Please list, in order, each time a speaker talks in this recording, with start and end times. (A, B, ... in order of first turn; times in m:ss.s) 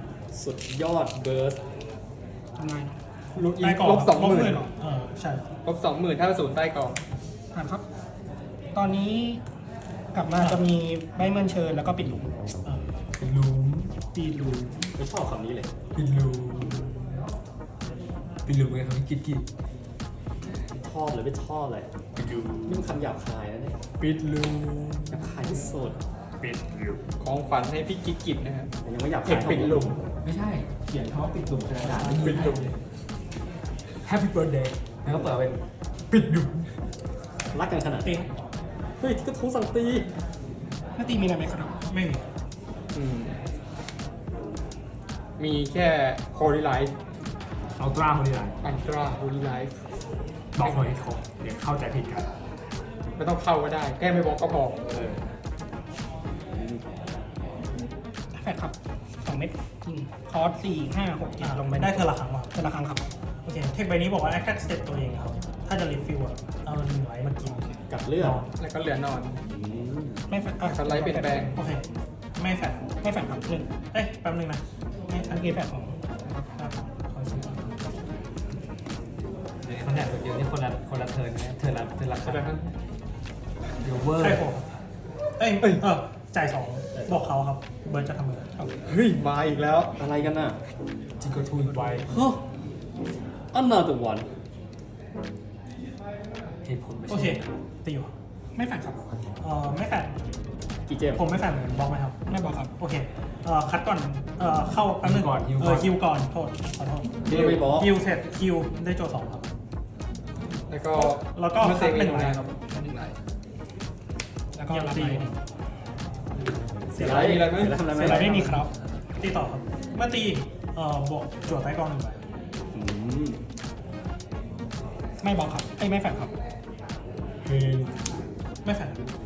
0:00.3-0:01.6 A
0:02.6-0:03.0 B
0:03.4-0:04.6 C
0:03.6-0:05.5 D
0:04.4-0:04.7 B
0:05.6-0:07.0 C
0:07.5-0:07.8 B
0:08.7-0:09.4 B
0:10.1-0:12.3 B
0:10.4-0:10.6 D
0:13.2-0:14.0 E
0:14.1-0:14.9 B
0:15.0-0:15.7 A
0:16.0-0:17.0 E
0:18.5-0:19.4 E
0:20.7-0:21.9 A
0:22.2-0:22.9 E
0:22.7-0:23.8 A
0:24.0-0:24.7 C
0:24.4-0:25.5 E
0:25.1-0:26.0 A
0:26.4-0:27.0 E
0:27.2-0:28.7 C
0:28.8-0:30.0 A
0:29.2-0:30.0 C
0:30.2-0:32.8 E
0:31.8-0:32.4 D
0:32.2-0:32.7 C
0:34.0-0:35.6 E
0:36.1-0:36.7 E
0:37.5-0:38.2 A
0:38.0-0:38.3 D
0:39.0-0:40.1 A
0:41.0-0:41.8 B
0:41.9-0:42.3 D
0:42.9-0:43.4 C
0:45.4-0:47.0 C
0:47.8-0:48.6 E
0:48.6-0:49.8 C
0:50.6-0:52.3 E
0:53.2-0:54.8 C
0:54.9-0:55.2 E
0:58.3-1:03.1 B
1:01.4-1:02.6 D
1:03.4-1:07.7 D
1:07.9-1:08.4 A
1:08.2-1:08.5 D
1:08.6-1:09.4 C
1:09.5-1:10.3 A
1:10.3-1:11.6 B
1:10.6-1:11.6 C
1:11.6-1:11.8 D
1:12.4-1:12.9 D
1:13.0-1:13.7 B
1:13.9-1:15.5 D
1:15.2-1:16.5 B
1:16.6-1:17.7 D
1:19.6-1:22.5 E
1:22.2-1:22.7 C
1:23.8-1:24.4 E
1:24.2-1:24.8 D
1:25.4-1:28.5 D
1:28.8-1:30.0 C
1:30.0-1:30.6 A
1:31.2-1:32.1 E
1:31.6-1:32.0 B
1:32.1-1:32.4 A
1:33.5-1:34.3 A
1:36.6-1:37.5 E
1:37.1-1:38.1 D
1:38.5-1:39.2 B
1:39.4-1:40.1 D
1:40.9-1:41.2 A
1:41.2-1:42.2 D
1:42.3-1:42.7 B
1:42.8-1:49.5 D
1:45.0-1:45.9 E
1:47.2-1:47.9 A
1:47.3-1:47.6 C
1:50.7-1:52.9 C
1:51.0-1:52.6 D
1:54.5-1:55.3 B
1:54.7-1:55.4 D
1:56.9-1:58.6 A
1:56.9-1:57.8 C
1:57.8-2:02.2 D
1:58.0-1:58.7 B
2:02.7-2:03.4 A
2:05.2-2:06.3 B
2:07.4-2:08.1 E
2:08.6-2:09.0 D